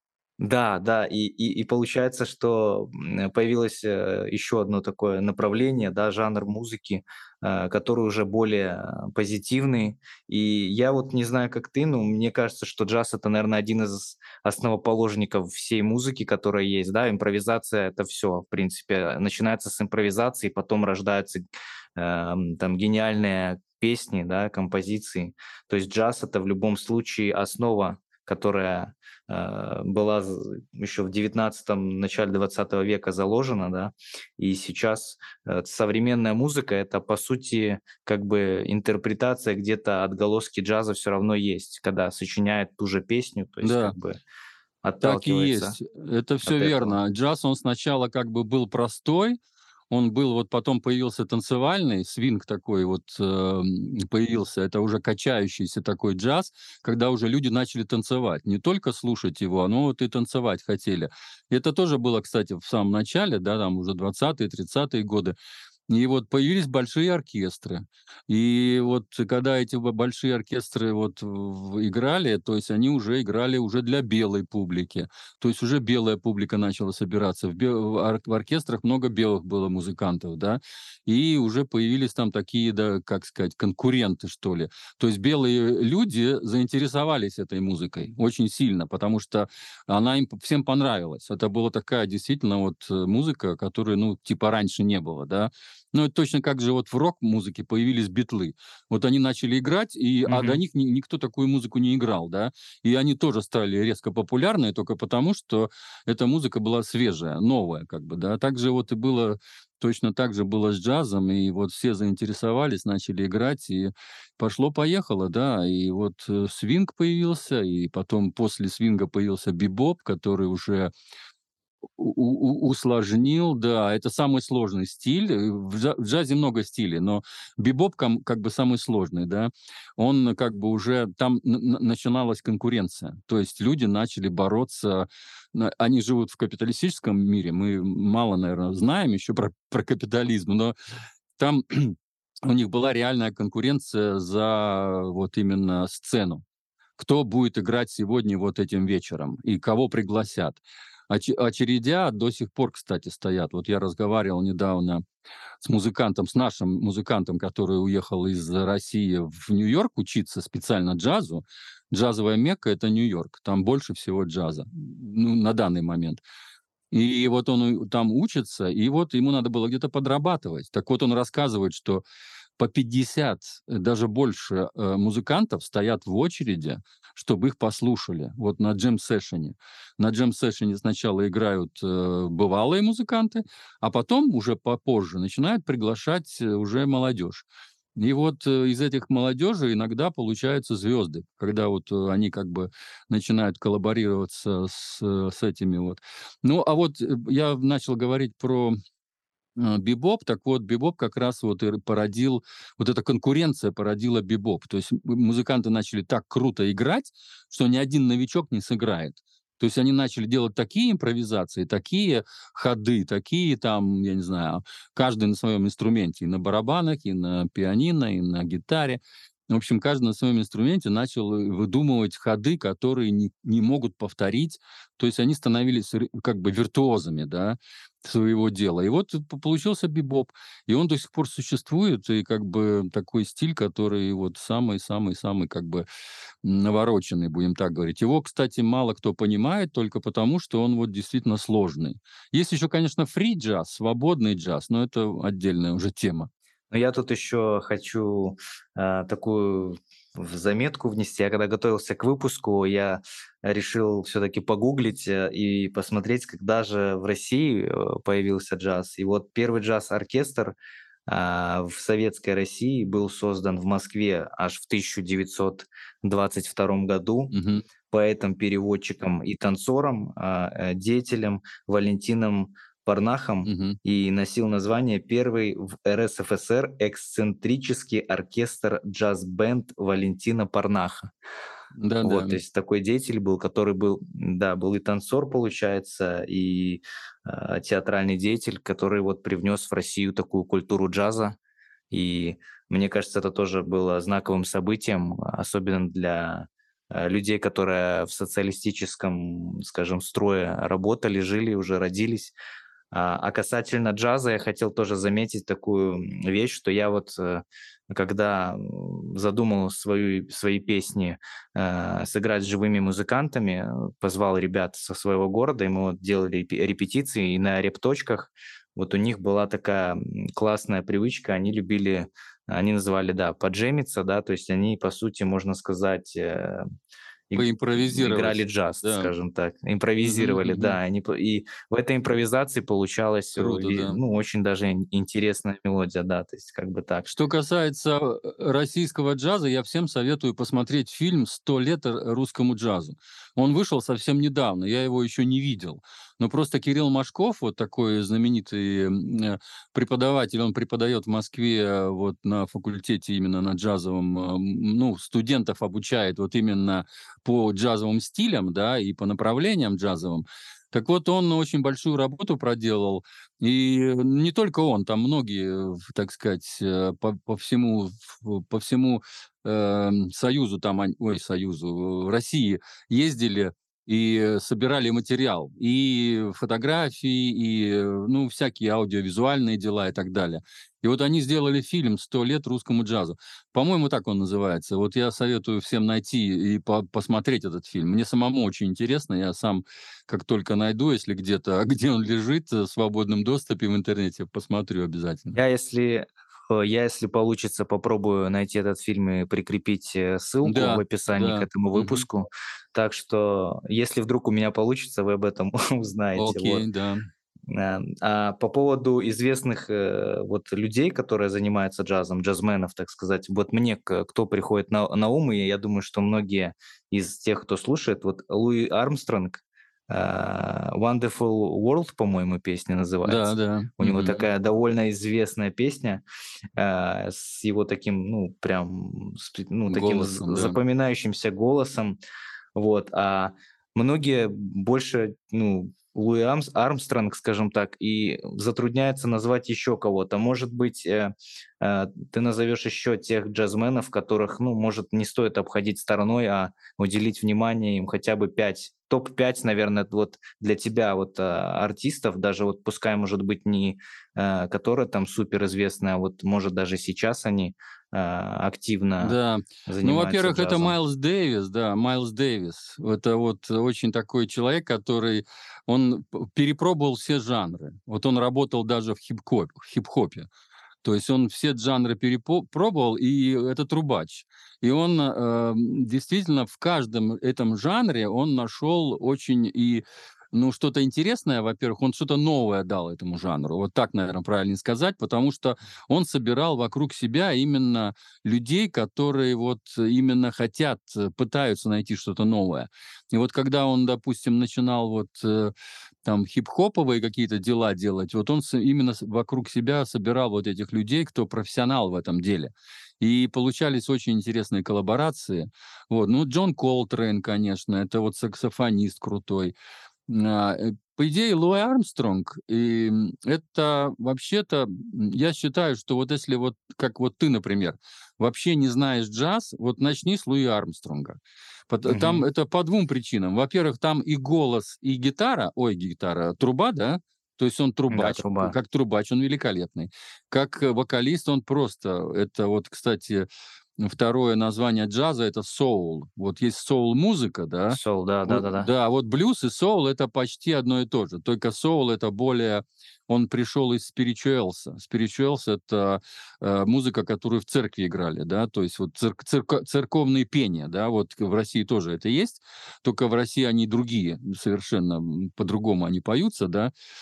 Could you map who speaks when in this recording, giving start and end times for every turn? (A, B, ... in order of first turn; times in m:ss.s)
0:00.4-0:21.4 A
0:22.0-0:44.2 A
0:43.6-0:44.0 B
0:44.8-0:45.8 A
0:45.0-0:49.4 B
0:46.4-0:47.0 A
0:49.9-1:05.4 B
1:05.9-2:00.9 B
1:40.3-1:40.6 A
2:02.0-2:20.8 B
2:21.4-2:26.4 B
2:27.0-2:35.0 B
2:35.6-2:46.2 B
2:46.9-2:52.0 B
2:52.6-3:07.4 B
3:08.0-3:18.8 B
3:19.6-3:55.9 B
3:56.4-4:06.3 B
4:06.7-4:20.6 A
4:21.1-4:27.3 A
4:27.3-4:27.6 B
4:27.9-4:41.1 A
4:33.4-4:33.8 B
4:41.8-4:42.4 B
4:42.0-4:51.4 A
4:51.9-5:02.3 A
5:02.9-5:26.6 A
5:27.3-5:37.1 A
5:27.4-5:29.1 B
5:30.0-5:30.8 B
5:33.4-5:34.0 B
5:37.1-6:35.4 B
6:35.4-6:46.6 A
6:40.4-6:42.0 B
6:46.2-6:47.1 B
6:47.5-7:06.0 A
7:03.0-7:04.3 B
7:06.6-7:12.0 A
7:09.7-7:10.6 B
7:12.6-7:39.2 A
7:39.0-7:50.3 B
7:39.7-7:40.8 A
7:50.8-8:15.5 B
8:16.0-8:29.5 B
8:30.1-8:41.2 B
8:41.7-8:53.3 B
8:41.9-8:42.2 A
8:47.9-8:48.6 A
8:53.8-9:16.7 B
8:57.7-8:58.7 A